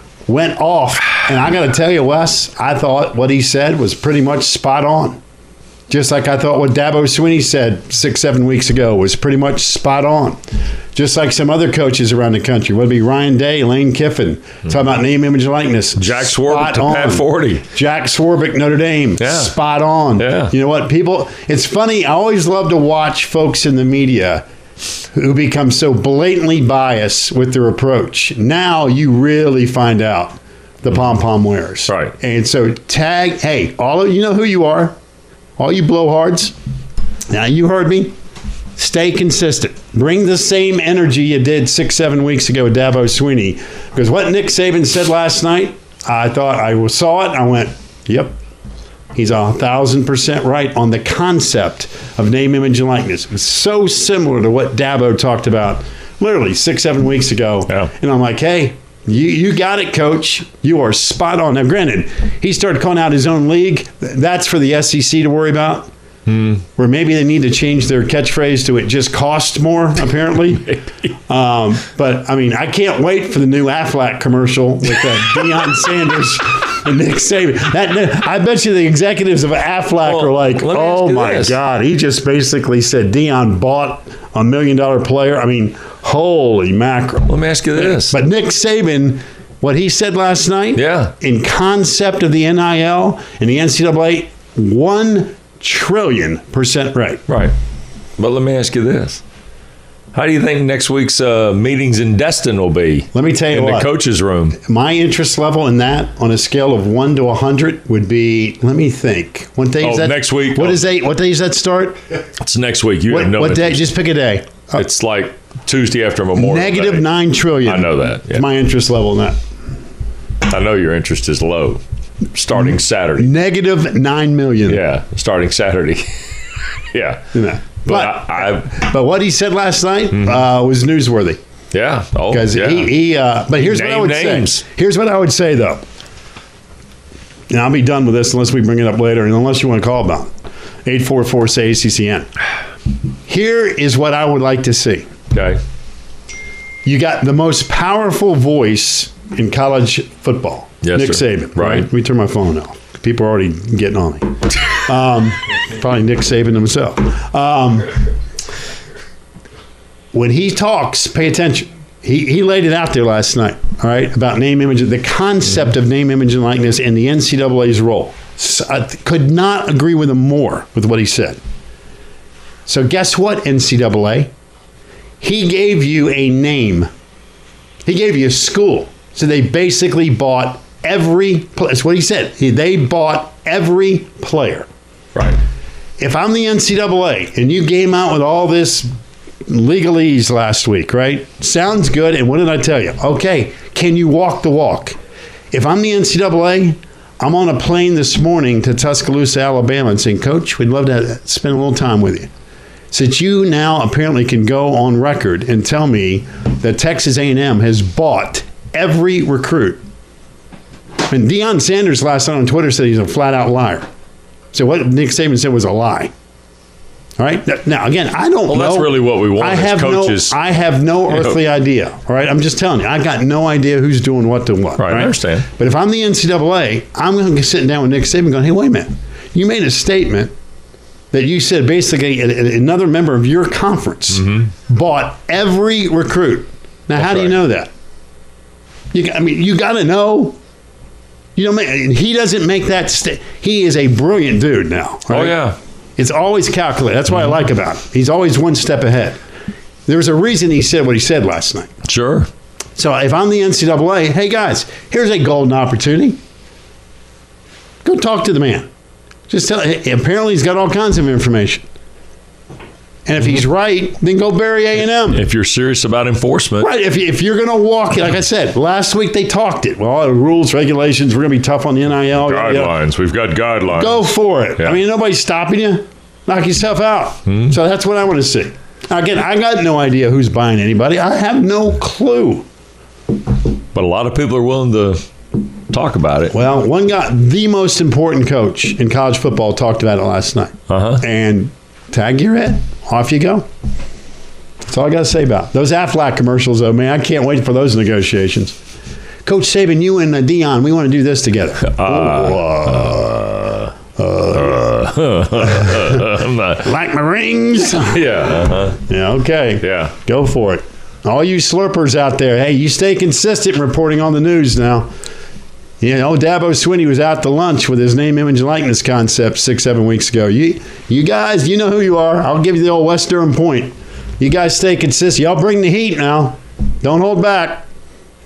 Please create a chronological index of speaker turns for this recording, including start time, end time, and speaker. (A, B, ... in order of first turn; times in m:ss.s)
0:00.3-0:05.2 A
0:05.9-0:10.4 A
0:11.0-0:24.4 A
0:16.0-0:17.6 B
0:19.2-0:19.5 B
0:20.2-0:20.5 B
0:25.1-0:35.0 A
0:31.9-0:32.1 B
0:35.6-0:36.6 A
0:37.3-0:38.2 A
0:38.8-0:48.4 A
0:49.2-1:05.9 A
1:06.3-1:06.6 B
1:06.8-1:10.7 A
1:11.3-1:37.2 A
1:20.0-1:21.6 B
1:27.3-1:28.2 B
1:30.8-1:31.1 B
1:37.3-1:37.6 B
1:38.2-1:39.2 B
1:40.1-1:44.6 B
1:43.1-1:43.9 A
1:44.6-1:52.0 A
1:49.8-1:50.8 B
1:52.4-1:53.9 B
1:53.1-1:54.8 A
1:54.7-1:57.1 B
1:56.4-1:59.4 A
1:57.6-1:58.5 B
2:00.5-2:01.8 B
2:02.3-2:03.3 B
2:02.6-2:04.8 A
2:04.7-2:06.3 B
2:06.9-2:08.9 B
2:07.3-2:11.4 A
2:11.7-2:12.9 B
2:12.3-2:15.8 A
2:13.5-2:14.6 B
2:17.5-2:20.3 A
2:20.8-2:22.3 A
2:23.3-2:25.1 A
2:25.3-2:25.6 B
2:26.8-2:38.0 A
2:30.8-2:31.9 B
2:40.1-2:51.4 A
2:52.7-2:54.3 A
2:55.2-2:56.9 A
2:57.8-3:04.7 A
3:06.0-3:08.9 A
3:09.5-3:15.0 A
3:15.5-3:22.3 A
3:22.9-3:29.8 A
3:31.1-3:33.9 A
3:34.5-3:36.1 A
3:37.2-3:50.3 A
3:38.5-3:40.4 B
3:44.8-3:45.5 B
3:51.1-3:57.7 A
3:54.1-3:54.5 B
3:57.0-3:57.3 B
3:58.9-4:00.4 A
4:01.4-4:05.4 A
4:05.1-4:05.6 B
4:06.0-4:09.2 A
4:09.9-4:11.7 A
4:11.8-4:12.3 B
4:12.8-4:16.2 A
4:17.8-4:18.7 A
4:19.3-4:21.6 A
4:23.1-4:25.2 A
4:25.1-4:26.7 B
4:26.6-4:32.7 A
4:32.3-4:34.8 B
4:33.8-4:42.5 A
4:37.3-4:37.6 B
4:43.8-4:45.0 B
4:45.7-4:46.4 B
4:46.3-4:53.5 A
4:50.7-4:51.0 B
4:54.7-4:58.6 A
4:59.2-5:03.2 A
5:01.6-5:03.7 B
5:04.0-5:04.7 A
5:04.3-5:06.7 B
5:05.4-5:06.0 A
5:06.6-5:08.2 A
5:07.8-5:08.8 B
5:08.8-5:14.9 A
5:09.6-5:09.9 B
5:15.8-5:27.6 A